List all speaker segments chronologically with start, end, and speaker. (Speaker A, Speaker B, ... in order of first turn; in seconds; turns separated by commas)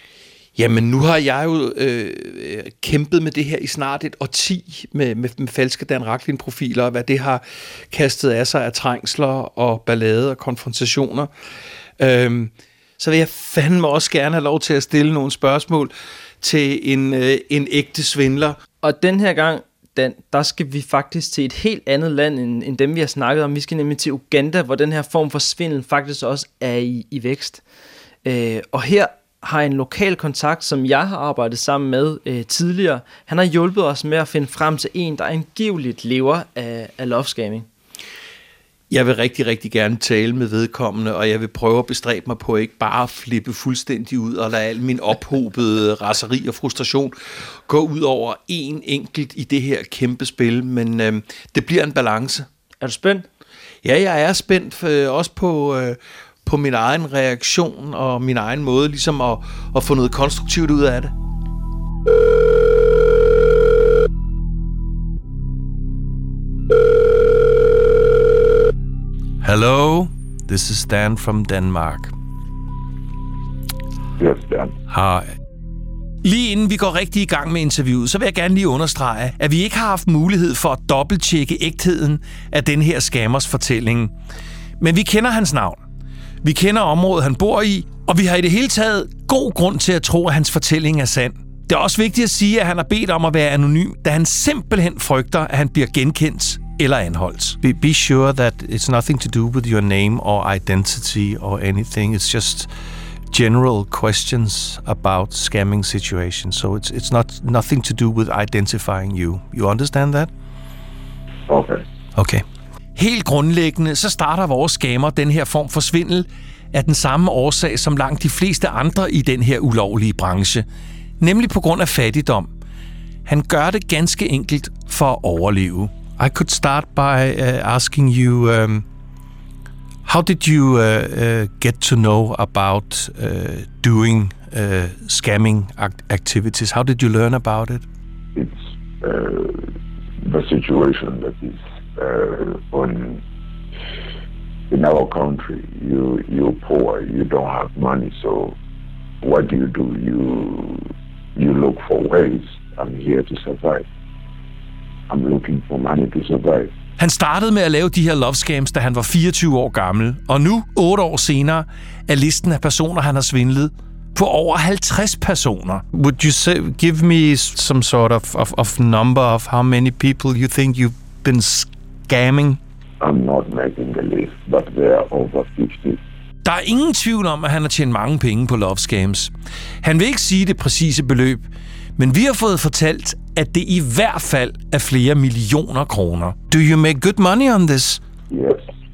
Speaker A: 0.6-11.3, Speaker A: 12.0-18.6, Speaker B: 18.8-27.6, Speaker B: 28.2-37.7, Speaker A: 38.9-47.1, Speaker A: 47.7-52.5, Speaker B: 52.8-53.2, Speaker A: 53.8-61.1, Speaker A: 69.4-72.1, Speaker C: 74.2-74.8, Speaker A: 74.9-75.2, Speaker A: 76.2-84.1, Speaker A: 84.8-85.8, Speaker A: 86.4-102.7, Speaker A: 103.3-110.3, Speaker C: 111.5-111.8, Speaker A: 112.2-112.4, Speaker A: 113.0-120.6, Speaker A: 121.2-122.5, Speaker A: 123.2-128.8, Speaker A: 130.1-137.8, Speaker C: 138.3-143.2, Speaker C: 144.7-148.6, Speaker C: 149.2-153.8, Speaker C: 155.1-156.7, Speaker A: 157.0-172.6, Speaker C: 173.0-176.0, Speaker A: 176.4-179.3, Speaker A: 179.8-181.4, Speaker A: 182.0-188.0, Speaker C: 188.3-188.6